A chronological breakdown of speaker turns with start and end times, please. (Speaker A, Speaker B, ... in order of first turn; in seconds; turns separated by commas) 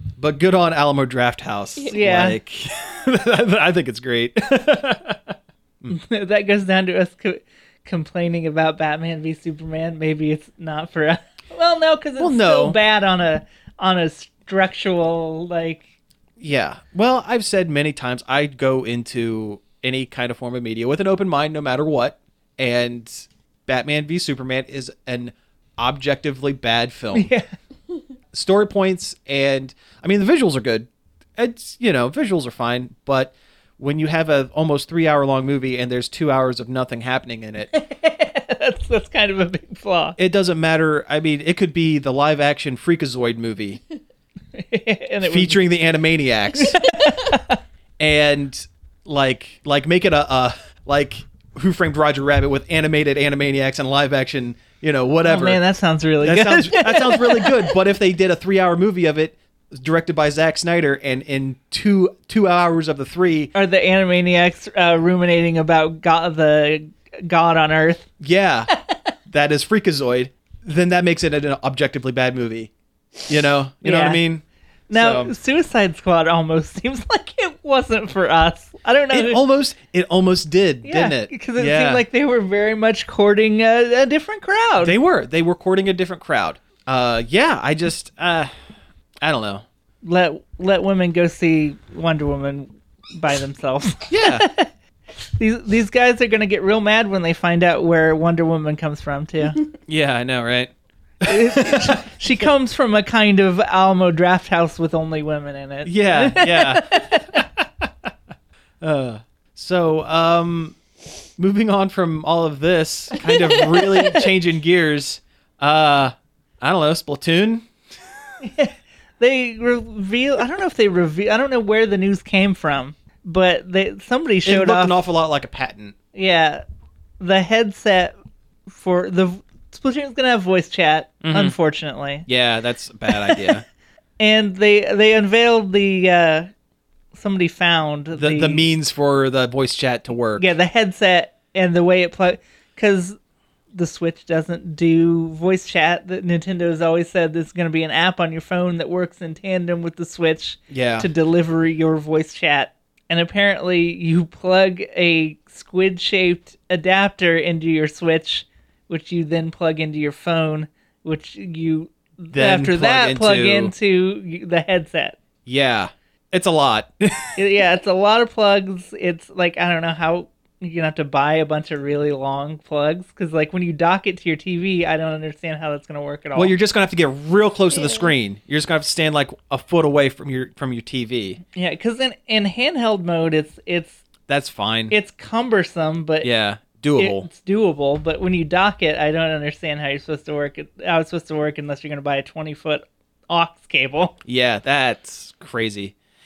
Speaker A: 0.2-6.0, Speaker B: 1.9-2.4, Speaker B: 5.9-15.8, Speaker A: 12.2-12.8, Speaker A: 16.4-27.3, Speaker B: 27.1-27.5, Speaker A: 28.3-37.7, Speaker B: 37.7-40.2, Speaker A: 40.2-43.8, Speaker B: 44.5-45.6, Speaker A: 45.2-46.8, Speaker B: 46.6-47.6, Speaker A: 48.0-55.6, Speaker B: 55.2-57.7, Speaker A: 56.2-63.5, Speaker B: 63.5-68.1, Speaker A: 68.2-68.7, Speaker A: 69.3-72.7, Speaker A: 73.3-75.3, Speaker B: 73.8-74.2, Speaker B: 74.9-79.4, Speaker A: 79.1-82.0, Speaker B: 80.8-85.0, Speaker A: 84.8-88.5, Speaker A: 89.2-89.7, Speaker B: 90.0-94.7, Speaker A: 94.1-94.5, Speaker B: 95.4-99.6, Speaker A: 99.9-102.0, Speaker B: 101.2-107.4, Speaker A: 105.8-107.9, Speaker A: 108.8-110.8, Speaker A: 111.4-117.7, Speaker B: 118.4-125.0, Speaker A: 124.5-126.0, Speaker B: 126.1-126.6, Speaker B: 127.2-128.2, Speaker B: 128.7-132.3, Speaker A: 131.2-131.6, Speaker A: 132.3-133.6, Speaker B: 134.2-136.5, Speaker B: 137.1-138.7, Speaker A: 138.2-140.5, Speaker B: 140.4-143.2, Speaker B: 143.7-165.2, Speaker A: 150.7-151.1, Speaker A: 162.3-163.7, Speaker A: 165.5-167.4, Speaker B: 167.4-176.5, Speaker A: 176.3-181.4, Speaker B: 181.5-184.0, Speaker A: 184.3-185.0, Speaker B: 184.9-186.3, Speaker A: 186.2-187.3, Speaker B: 187.0-194.2, Speaker A: 194.2-195.9